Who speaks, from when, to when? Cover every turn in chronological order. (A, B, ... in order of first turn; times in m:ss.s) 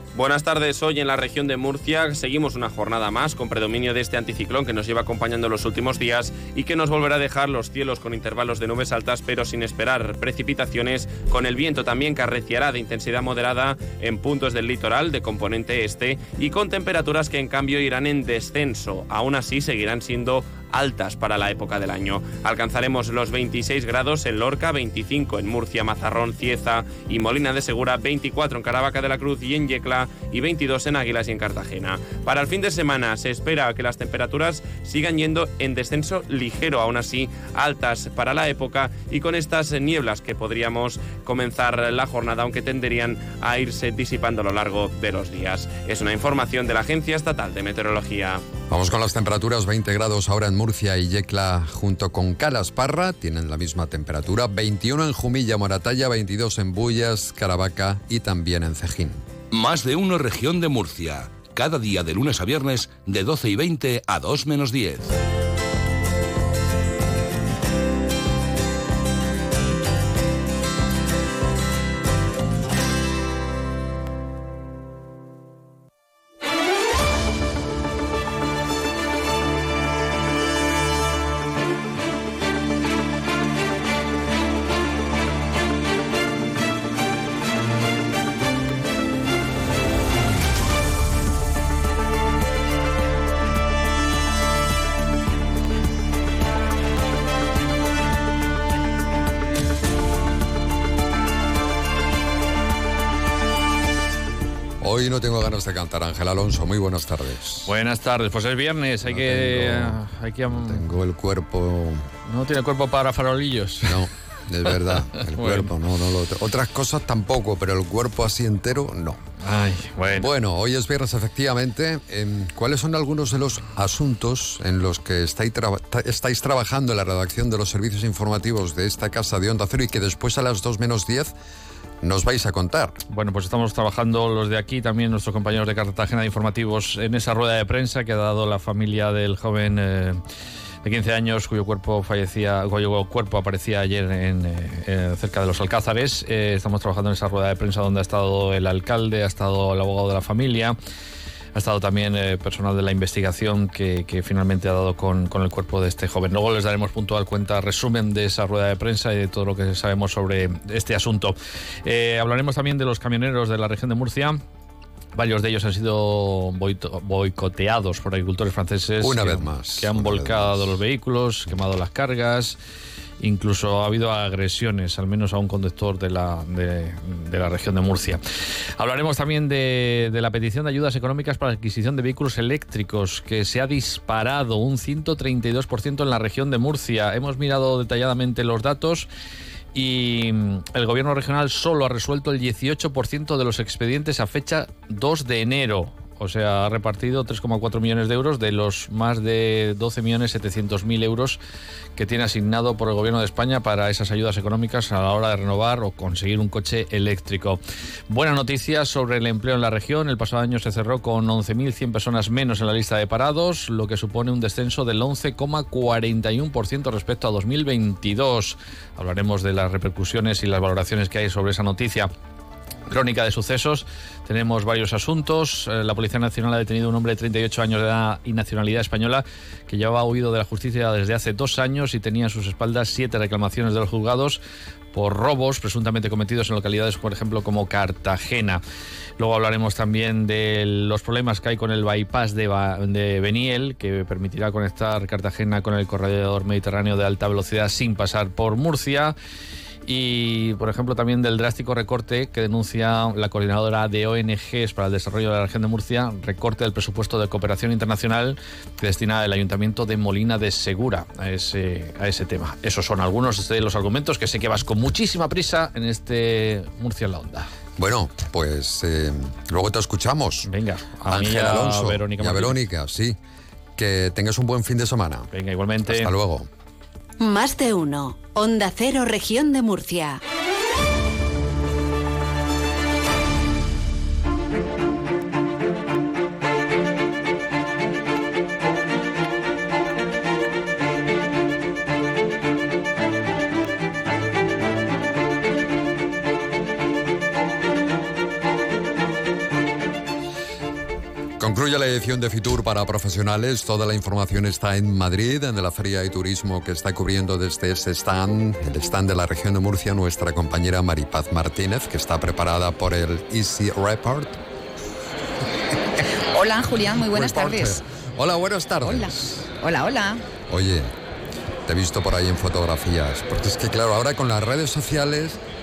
0:00.1-0:48.4 A
0:48.7-0:59.2 B
0:59.5-1:05.1 C
1:44.8-1:47.7 B
1:47.6-1:50.8 D
1:49.0-1:52.1 B
1:52.3-1:54.0 D
1:53.8-1:59.2 B
1:55.2-1:55.7 D
1:59.4-2:00.3 D
2:00.1-2:11.3 B
2:12.0-2:13.0 B
2:13.1-2:20.2 D
2:20.8-2:30.8 D
2:31.5-2:44.4 D
2:45.1-2:52.6 D
2:49.0-2:50.8 B
2:53.2-2:58.2 D
2:58.8-3:09.1 D
3:09.7-3:21.4 D
3:22.0-3:42.1 D
3:42.9-3:58.6 D
3:59.2-4:09.2 D
4:09.8-4:27.5 D
4:27.8-4:30.5 B
4:30.4-4:32.6 D
4:31.0-4:33.2 B
4:33.8-4:35.3 B
4:35.3-4:36.1 D
4:35.8-4:36.5 B
4:37.2-4:40.2 E
5:01.4-5:14.4 B
5:16.2-5:17.8 F
5:17.0-5:19.5 B
5:18.8-5:20.2 F
5:20.5-5:20.9 B
5:21.6-5:25.4 B